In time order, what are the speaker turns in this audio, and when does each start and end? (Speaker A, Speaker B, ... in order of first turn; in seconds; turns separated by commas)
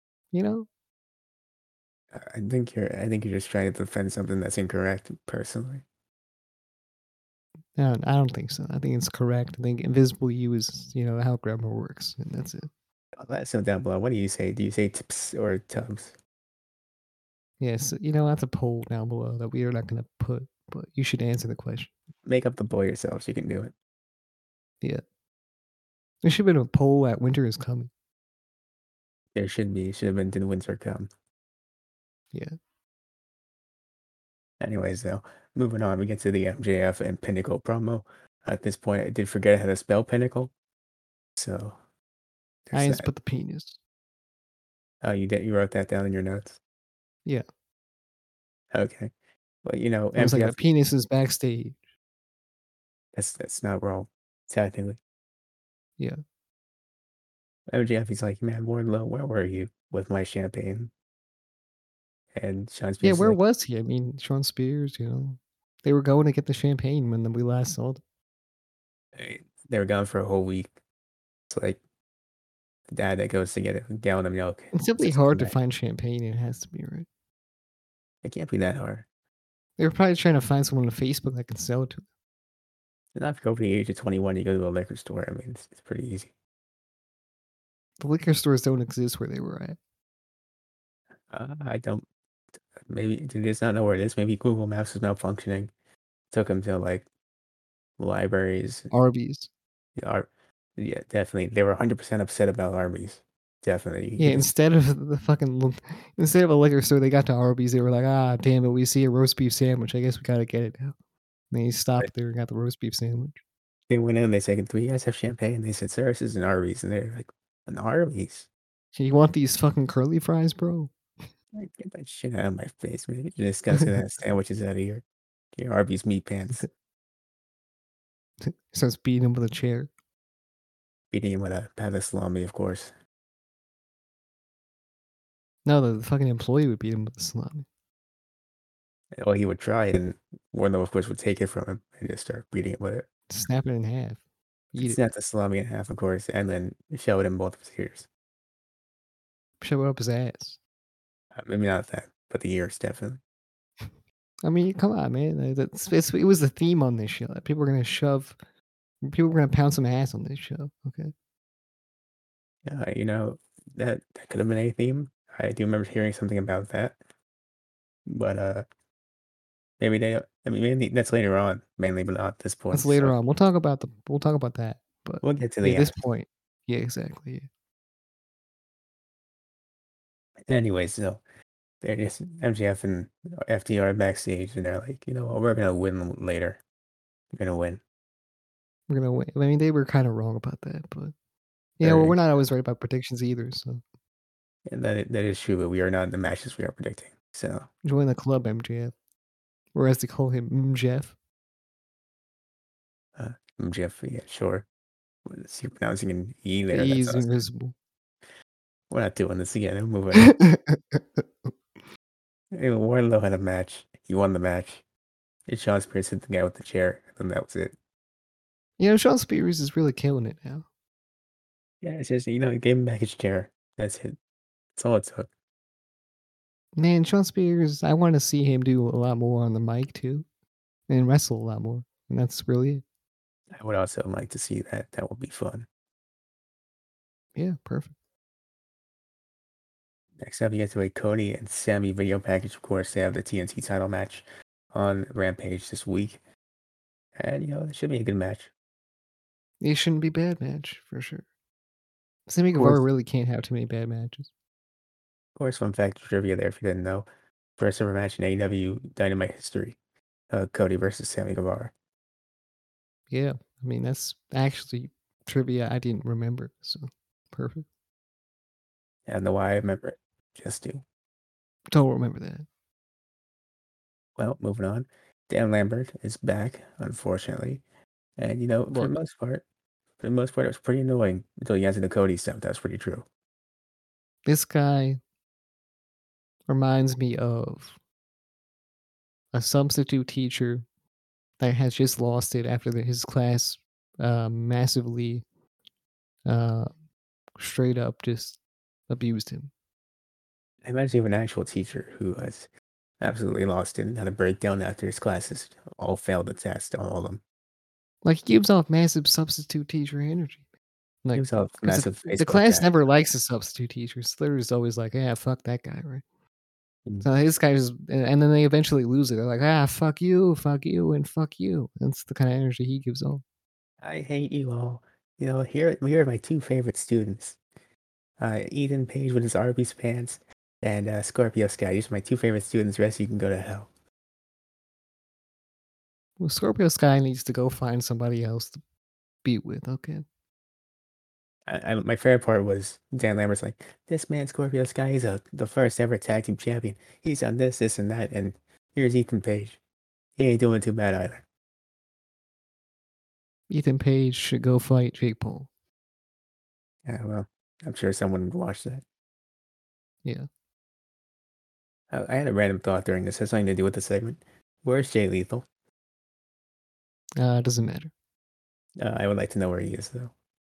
Speaker A: 0.3-0.7, Speaker B: 2.1-5.8, Speaker A: 7.8-12.7, Speaker B: 13.2-16.1, Speaker A: 17.6-21.9, Speaker B: 22.2-23.7, Speaker A: 26.2-27.9, Speaker B: 29.3-31.1, Speaker B: 34.6-40.5, Speaker B: 41.4-41.8, Speaker B: 42.7-43.1, Speaker A: 42.7-43.8, Speaker B: 45.0-46.6, Speaker B: 48.7-49.1, Speaker B: 49.6-50.6, Speaker A: 50.2-51.8, Speaker B: 53.1-55.0, Speaker B: 57.7-60.9, Speaker B: 62.3-63.4, Speaker A: 63.0-68.0, Speaker B: 69.1-70.7, Speaker B: 71.5-71.8, Speaker B: 72.9-75.6, Speaker A: 74.7-77.1, Speaker B: 78.2-79.0, Speaker A: 79.8-82.0, Speaker B: 83.1-86.3, Speaker A: 88.0-89.8, Speaker B: 91.3-92.0, Speaker B: 92.9-95.7, Speaker B: 96.3-97.0, Speaker B: 98.0-98.9, Speaker A: 98.9-99.5, Speaker B: 100.0-104.5, Speaker A: 104.2-110.9, Speaker A: 111.5-113.4, Speaker B: 113.9-118.5, Speaker A: 118.9-120.9, Speaker B: 121.5-125.0, Speaker B: 125.5-126.7, Speaker A: 128.4-129.9, Speaker B: 131.1-132.9, Speaker A: 135.6-137.7, Speaker B: 139.1-143.1, Speaker A: 143.3-144.2, Speaker A: 144.7-145.0, Speaker B: 144.8-148.1, Speaker A: 149.6-150.6, Speaker B: 151.3-153.2, Speaker A: 154.4-158.3, Speaker A: 159.0-161.1, Speaker B: 162.7-167.0, Speaker B: 168.1-168.6, Speaker B: 169.8-173.1, Speaker A: 172.7-177.5, Speaker B: 175.2-175.9, Speaker B: 180.5-181.2, Speaker B: 181.8-186.6, Speaker B: 187.3-187.8, Speaker A: 188.9-191.1, Speaker A: 191.8-193.8, Speaker B: 191.8-192.2, Speaker B: 194.7-197.7, Speaker A: 197.8-198.9, Speaker A: 199.7-201.1, Speaker B: 203.2-204.7, Speaker B: 205.2-207.3, Speaker A: 206.7-207.7, Speaker B: 208.9-210.3, Speaker A: 210.2-211.5, Speaker B: 212.5-214.8, Speaker B: 215.5-217.7, Speaker A: 218.8-220.7, Speaker B: 221.8-224.2, Speaker B: 224.8-225.3, Speaker A: 226.8-230.2, Speaker A: 230.9-232.8, Speaker B: 233.5-235.7, Speaker A: 237.3-237.9, Speaker B: 240.2-246.2, Speaker B: 247.2-248.5, Speaker A: 249.6-251.2, Speaker A: 252.3-254.3, Speaker B: 252.5-252.8, Speaker B: 255.3-257.1, Speaker B: 257.6-259.8, Speaker B: 260.3-261.7, Speaker A: 263.1-267.6, Speaker B: 269.1-270.8, Speaker A: 271.7-272.4, Speaker B: 274.2-277.6, Speaker B: 278.2-279.4, Speaker B: 280.0-283.0, Speaker A: 284.2-285.0, Speaker A: 286.5-287.7, Speaker A: 289.3-290.6, Speaker A: 291.4-295.2, Speaker A: 296.2-296.7, Speaker A: 297.4-299.5, Speaker B: 300.6-302.5, Speaker B: 303.0-307.2, Speaker A: 308.0-310.4, Speaker A: 311.0-316.0, Speaker B: 311.1-312.7, Speaker A: 317.0-323.2, Speaker B: 323.8-327.4, Speaker B: 328.2-333.7, Speaker A: 336.2-338.6, Speaker A: 339.2-340.0, Speaker B: 341.5-349.6, Speaker B: 350.2-351.2, Speaker A: 353.5-355.5, Speaker B: 356.9-358.8, Speaker B: 361.9-365.4, Speaker A: 367.2-367.9, Speaker B: 368.8-370.1